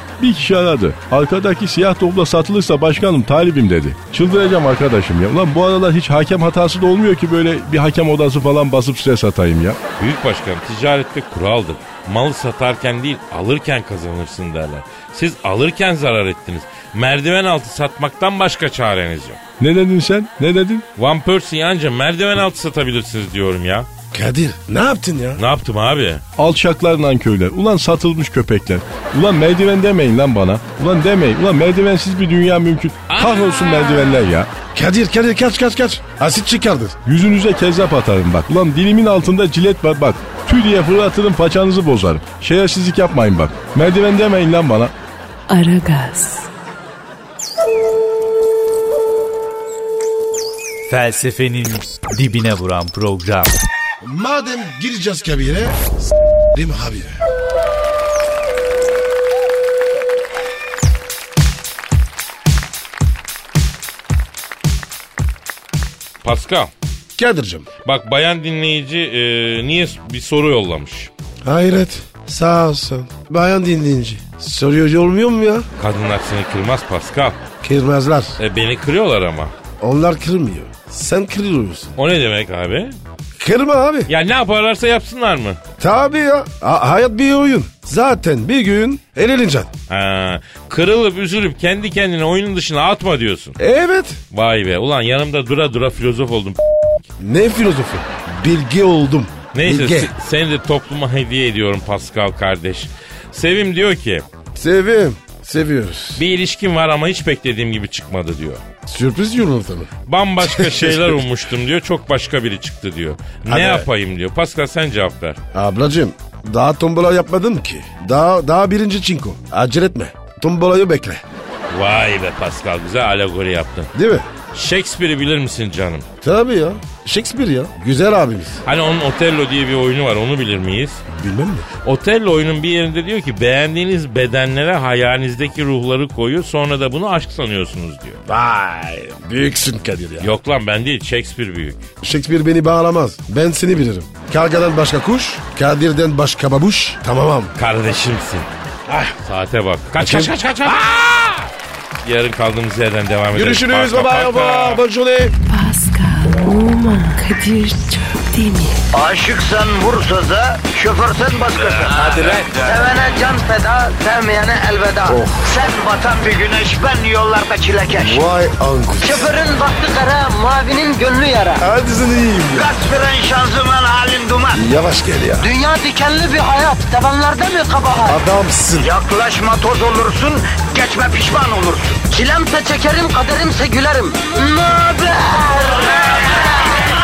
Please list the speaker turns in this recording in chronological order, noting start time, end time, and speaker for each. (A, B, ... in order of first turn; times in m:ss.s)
0:00.2-0:09.8 A
0:10.0-0:19.4 B
0:19.6-0:20.8 A
0:21.0-0:23.9 B
0:24.1-0:25.4 C
0:25.4-0:26.2 B
0:26.4-0:34.5 A
0:33.1-0:34.3 B
0:34.7-0:37.0 C
0:37.0-0:44.9 A
0:45.5-0:46.5 D
0:50.9-0:53.6 E
0:54.0-0:55.8 C
0:56.5-0:57.2 C
1:06.2-1:06.7 B
1:07.2-1:07.7 C
1:07.8-1:11.1 B
1:11.4-1:15.7 C
1:15.8-1:17.4 B
1:17.6-1:18.4 C
1:18.4-1:19.5 B
1:19.8-1:22.0 C
1:22.0-1:22.9 B
1:23.4-1:24.1 C
1:24.1-1:25.6 B
1:25.8-1:29.7 C
1:29.9-1:33.6 B
1:33.6-1:34.2 C
1:34.3-1:36.6 B
1:37.2-1:40.1 C
1:39.5-1:44.2 B
1:44.6-1:46.2 C
1:46.2-1:48.6 B
1:48.9-1:51.2 C
1:50.1-1:55.4 B
1:53.5-1:53.9 C
1:55.5-2:01.2 C
2:01.7-2:03.9 B
2:03.9-2:04.3 C
2:04.5-2:06.1 B
2:06.2-2:08.6 C
2:08.6-2:11.0 B
2:11.1-2:11.7 C
2:11.8-2:18.2 B
2:18.3-2:20.4 C
2:20.2-2:21.8 B
2:22.0-2:27.6 C
2:27.6-2:28.5 B
2:28.9-2:29.2 C
2:29.2-2:31.5 B
2:30.0-2:30.4 C
2:32.0-2:34.8 B
2:33.3-2:35.3 C
2:35.5-2:38.8 D
2:38.9-2:48.3 F
2:41.9-2:42.5 B
2:42.1-2:42.5 C
2:45.1-2:45.5 C
2:48.0-2:49.3 C
2:49.0-2:51.7 F
2:51.6-2:52.7 C
2:52.5-2:54.6 F
2:54.5-2:55.5 C
2:55.4-2:58.2 F
2:58.0-2:58.9 C
2:58.8-3:06.7 F